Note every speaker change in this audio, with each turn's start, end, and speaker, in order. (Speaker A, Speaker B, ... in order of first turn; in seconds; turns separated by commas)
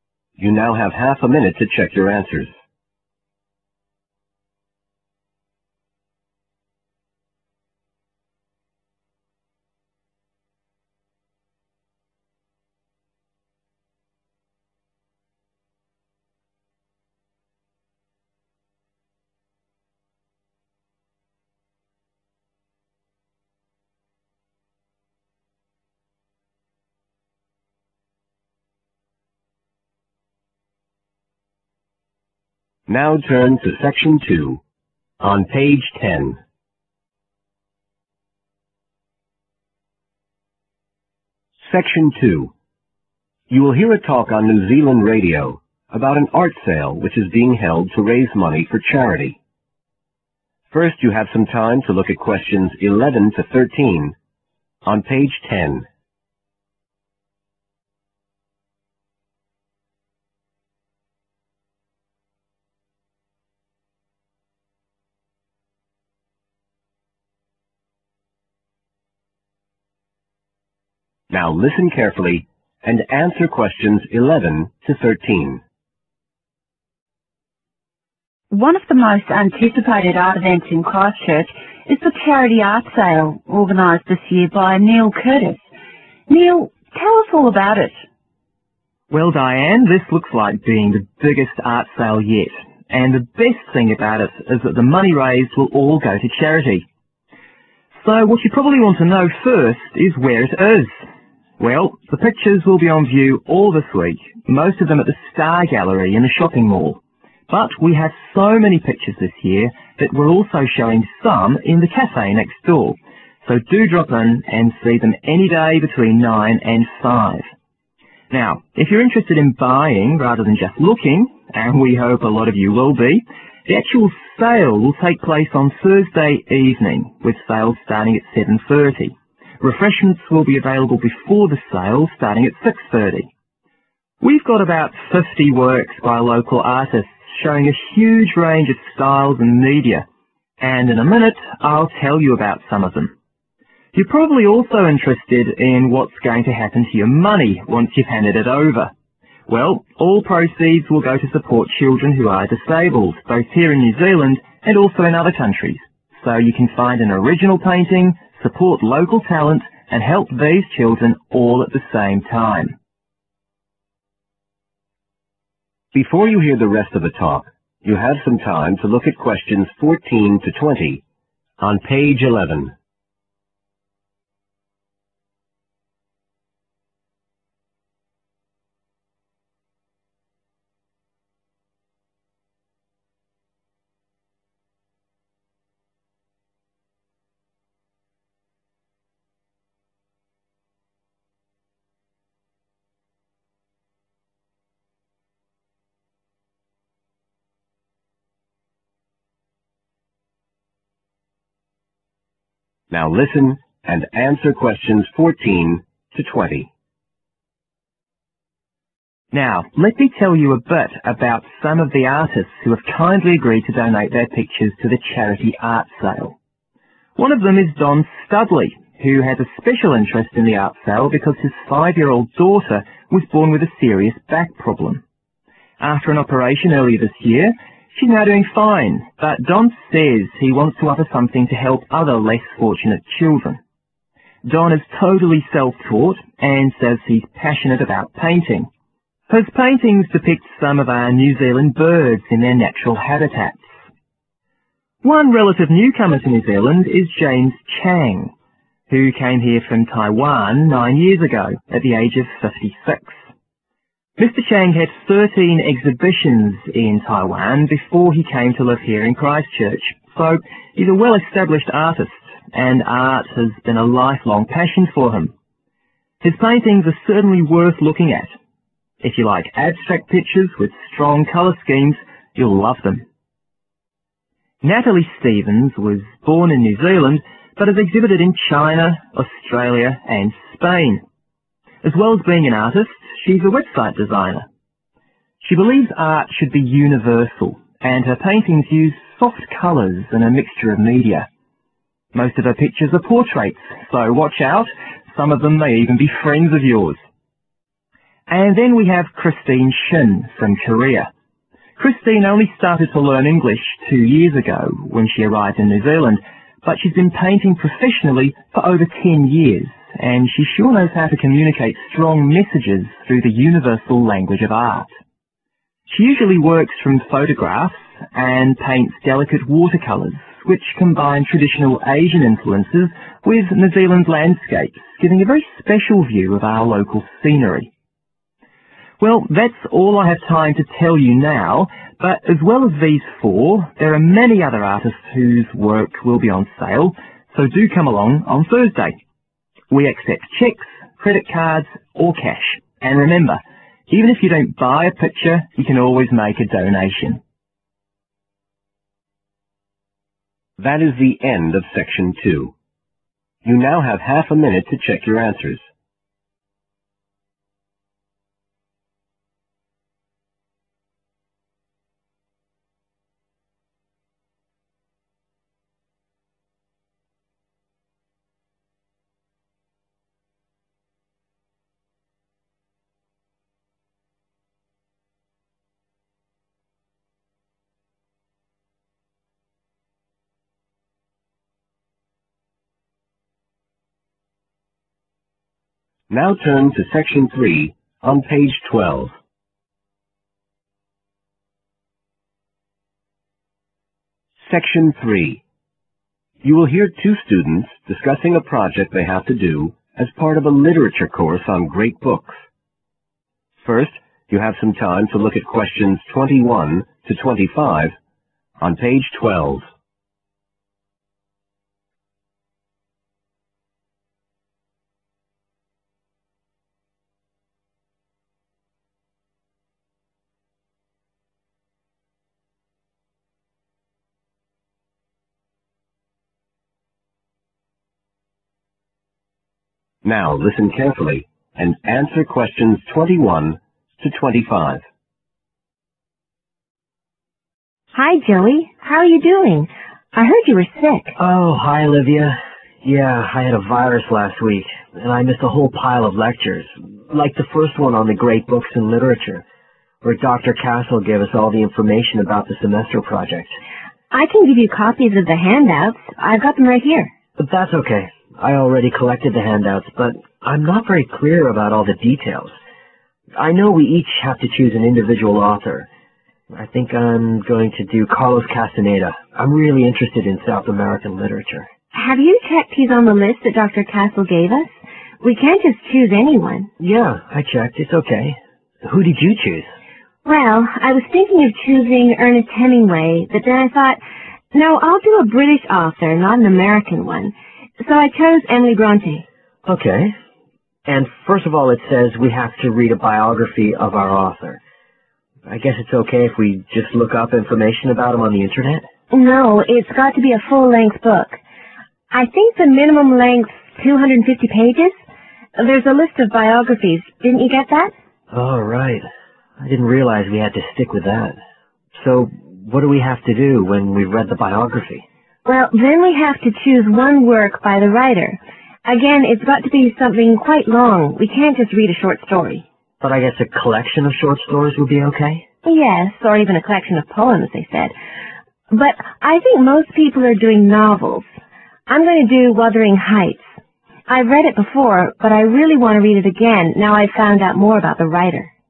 Speaker A: 0.4-2.5, Speaker A: 32.9-34.6, Speaker A: 35.2-36.4, Speaker A: 41.6-42.5, Speaker A: 43.5-49.4, Speaker A: 50.7-54.1, Speaker A: 54.8-55.9, Speaker A: 71.3-75.6, Speaker B: 78.5-85.6, Speaker B: 86.3-88.0, Speaker C: 89.1-96.9, Speaker C: 98.0-100.9, Speaker C: 101.6-117.5, Speaker C: 118.3-133.3, Speaker C: 134.2-140.1, Speaker C: 140.6-143.1, Speaker C: 143.9-148.9, Speaker C: 149.5-162.8, Speaker A: 165.9-171.0, Speaker A: 171.6-172.7, Speaker A: 202.9-206.7, Speaker C: 209.3-216.3, Speaker C: 217.2-225.0, Speaker C: 225.8-233.6, Speaker C: 234.4-238.7, Speaker C: 239.3-243.7, Speaker C: 245.0-248.3, Speaker C: 248.9-253.2, Speaker C: 254.2-265.3, Speaker C: 266.2-268.3, Speaker C: 269.0-273.0, Speaker C: 274.6-281.0, Speaker C: 281.8-284.5, Speaker C: 285.4-291.3, Speaker C: 292.1-297.0, Speaker C: 298.3-301.1, Speaker C: 301.8-314.9, Speaker C: 315.9-327.7, Speaker C: 329.0-339.0, Speaker C: 339.7-347.2, Speaker A: 350.6-352.5, Speaker A: 353.4-355.7, Speaker A: 386.1-389.1, Speaker A: 394.4-395.4, Speaker A: 396.4-402.4, Speaker A: 403.6-407.9, Speaker A: 408.6-409.7, Speaker A: 430.0-434.8, Speaker D: 437.9-441.1, Speaker E: 441.2-449.4, Speaker E: 450.0-453.5, Speaker D: 454.1-457.1, Speaker E: 457.4-462.5, Speaker E: 463.4-465.9, Speaker E: 466.5-471.7, Speaker D: 471.9-476.7, Speaker E: 476.8-479.7, Speaker D: 480.2-484.0, Speaker D: 484.5-489.2, Speaker E: 489.6-490.1, Speaker E: 490.9-494.6, Speaker E: 495.5-498.9, Speaker D: 499.1-501.4, Speaker D: 502.1-505.0, Speaker D: 505.5-507.9, Speaker E: 508.3-509.1, Speaker E: 509.6-511.4, Speaker E: 512.0-515.0, Speaker D: 515.5-522.6, Speaker E: 523.0-525.5, Speaker D: 525.6-527.9, Speaker D: 528.7-531.2, Speaker D: 531.9-533.5, Speaker D: 534.1-538.5